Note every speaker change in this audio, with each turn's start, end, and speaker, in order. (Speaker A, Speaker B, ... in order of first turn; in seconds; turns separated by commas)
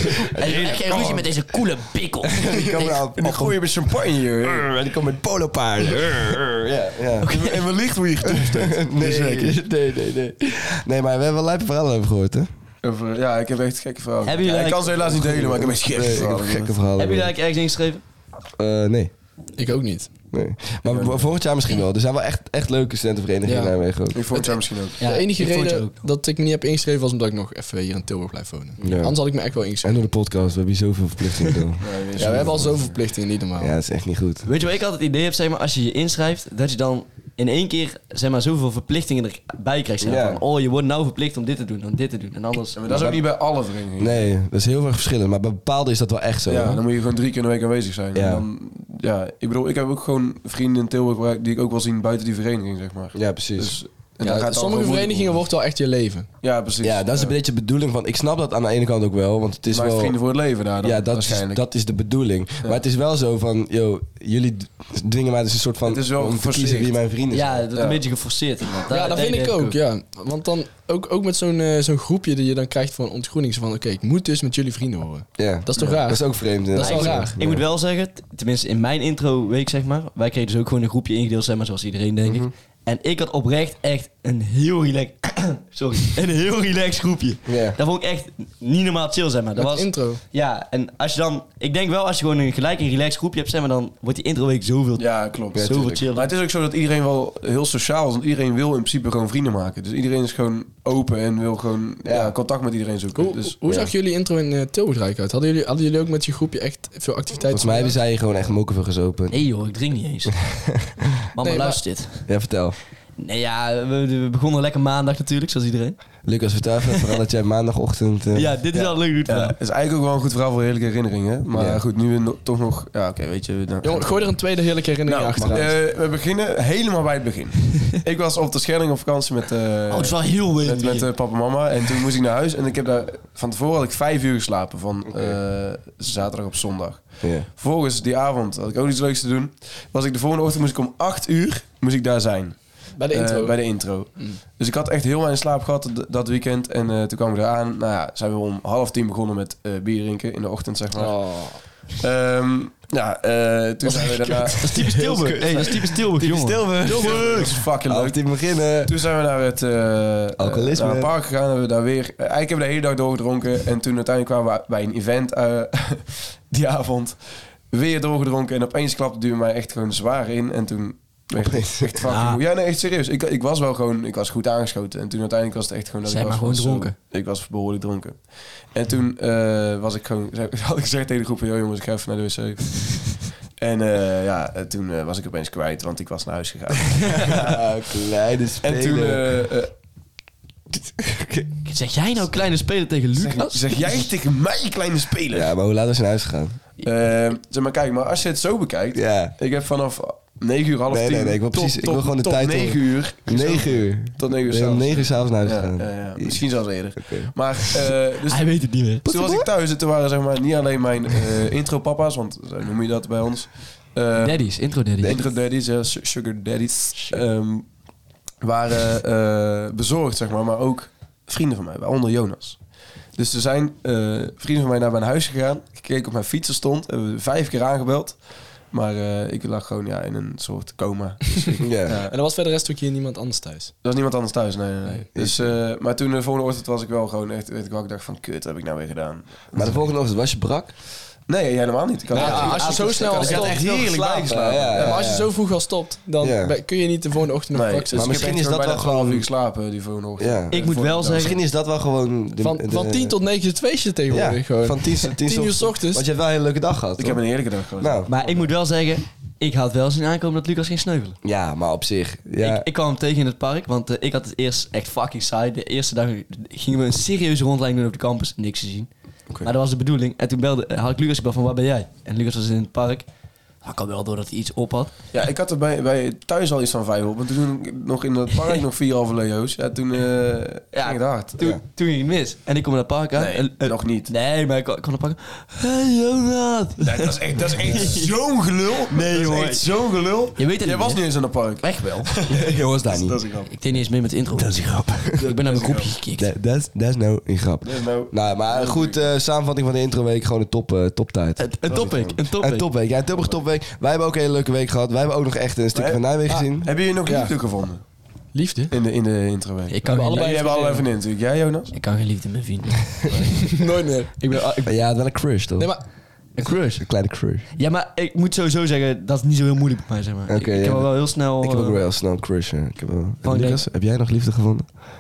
Speaker A: 0.2-1.2, Speaker B: 0.3-3.0, Speaker C: 2.3-3.6, Speaker A: 3.1-4.7, Speaker C: 4.4-7.3, Speaker B: 7.2-7.6, Speaker A: 7.2-9.6, Speaker C: 8.2-12.5, Speaker A: 12.8-16.8, Speaker B: 14.2-15.2, Speaker C: 15.1-17.3, Speaker B: 17.0-18.0, Speaker C: 18.6-19.1, Speaker D: 19.6-20.1, Speaker C: 20.3-24.2, Speaker A: 20.9-21.3, Speaker D: 23.5-23.8, Speaker A: 24.1-25.0, Speaker B: 25.0-26.0, Speaker D: 25.0-29.9, Speaker C: 28.8-29.2, Speaker C: 29.8-32.8, Speaker A: 31.8-32.9, Speaker D: 32.2-33.7, Speaker C: 33.6-34.5, Speaker B: 34.5-42.8, Speaker C: 40.0-40.4, Speaker A: 42.8-44.2, Speaker C: 42.9-43.2, Speaker C: 44.0-46.8, Speaker A: 46.5-55.4, Speaker C: 48.1-48.4, Speaker C: 53.1-53.8, Speaker D: 54.2-56.3, Speaker A: 56.4-57.3, Speaker C: 56.8-60.2, Speaker A: 59.7-61.6, Speaker C: 60.8-67.7, Speaker A: 65.9-67.0, Speaker B: 67.3-69.8, Speaker A: 67.8-68.0, Speaker D: 68.9-77.3, Speaker C: 75.4-77.6, Speaker B: 76.8-96.3, Speaker C: 82.2-82.5, Speaker C: 87.5-87.8, Speaker D: 89.6-90.2, Speaker A: 95.0-103.6, Speaker C: 95.5-96.0, Speaker C: 102.0-102.3, Speaker D: 103.2-108.0, Speaker C: 107.5-109.4, Speaker B: 109.3-110.4, Speaker B: 111.3-112.3, Speaker D: 111.4-111.8, Speaker C: 112.3-112.8, Speaker B: 113.2-116.0, Speaker C: 116.2-118.5, Speaker B: 118.3-119.6, Speaker A: 118.7-124.3, Speaker C: 121.5-121.8, Speaker D: 123.8-125.7, Speaker A: 125.1-151.2, Speaker C: 125.4-125.7, Speaker B: 129.9-131.1, Speaker C: 137.2-137.5, Speaker D: 143.0-143.6, Speaker D: 150.9-151.6, Speaker A: 152.0-154.7, Speaker B: 154.6-157.5, Speaker C: 154.8-155.7, Speaker A: 156.2-187.6, Speaker C: 157.9-159.0, Speaker C: 160.4-161.1, Speaker C: 171.4-172.0, Speaker B: 172.1-172.4, Speaker B: 176.1-177.0, Speaker C: 187.2-189.3, Speaker A: 188.6-189.7, Speaker C: 190.7-191.5, Speaker B: 191.7-194.1, Speaker A: 193.2-195.5, Speaker C: 195.3-196.6, Speaker A: 196.8-217.7, Speaker C: 198.9-199.3, Speaker C: 200.9-206.4, Speaker C: 207.0-207.3, Speaker B: 208.3-209.1, Speaker C: 209.1-209.5, Speaker B: 214.2-215.2, Speaker A: 218.4-222.6, Speaker A: 223.1-232.2, Speaker C: 231.6-232.0, Speaker D: 232.0-233.7, Speaker A: 233.8-239.9, Speaker C: 235.2-235.5, Speaker C: 239.6-240.7, Speaker A: 241.3-245.2, Speaker B: 242.1-244.4, Speaker D: 242.1-243.6, Speaker C: 242.2-242.7, Speaker C: 243.6-245.3, Speaker D: 244.8-248.3, Speaker C: 246.2-246.6, Speaker A: 247.5-251.3, Speaker C: 247.9-249.3, Speaker C: 250.2-253.1, Speaker B: 250.5-251.4, Speaker D: 252.4-256.0, Speaker C: 254.1-257.2, Speaker A: 257.0-258.5, Speaker C: 257.8-258.1, Speaker B: 258.1-261.2, Speaker C: 261.2-262.7, Speaker B: 262.4-268.9, Speaker B: 269.4-273.1, Speaker B: 273.6-274.9, Speaker A: 275.1-281.4, Speaker B: 280.7-288.1, Speaker A: 283.1-284.1, Speaker A: 286.8-293.5, Speaker B: 288.9-289.7, Speaker B: 290.4-292.1, Speaker C: 292.3-293.2, Speaker B: 293.5-296.3, Speaker C: 294.4-295.2, Speaker A: 295.2-295.9, Speaker C: 296.2-306.7, Speaker A: 297.6-299.0, Speaker B: 301.4-302.7, Speaker A: 305.7-306.0, Speaker A: 306.6-307.8, Speaker D: 307.0-307.3, Speaker D: 308.3-308.7, Speaker A: 308.7-311.8, Speaker B: 309.7-310.6, Speaker D: 309.9-310.9, Speaker B: 311.7-313.5, Speaker D: 313.5-314.3, Speaker B: 314.2-314.7, Speaker C: 314.6-315.7, Speaker B: 316.4-316.9, Speaker C: 316.8-317.4, Speaker B: 317.6-321.8, Speaker C: 320.3-324.7, Speaker B: 323.2-323.6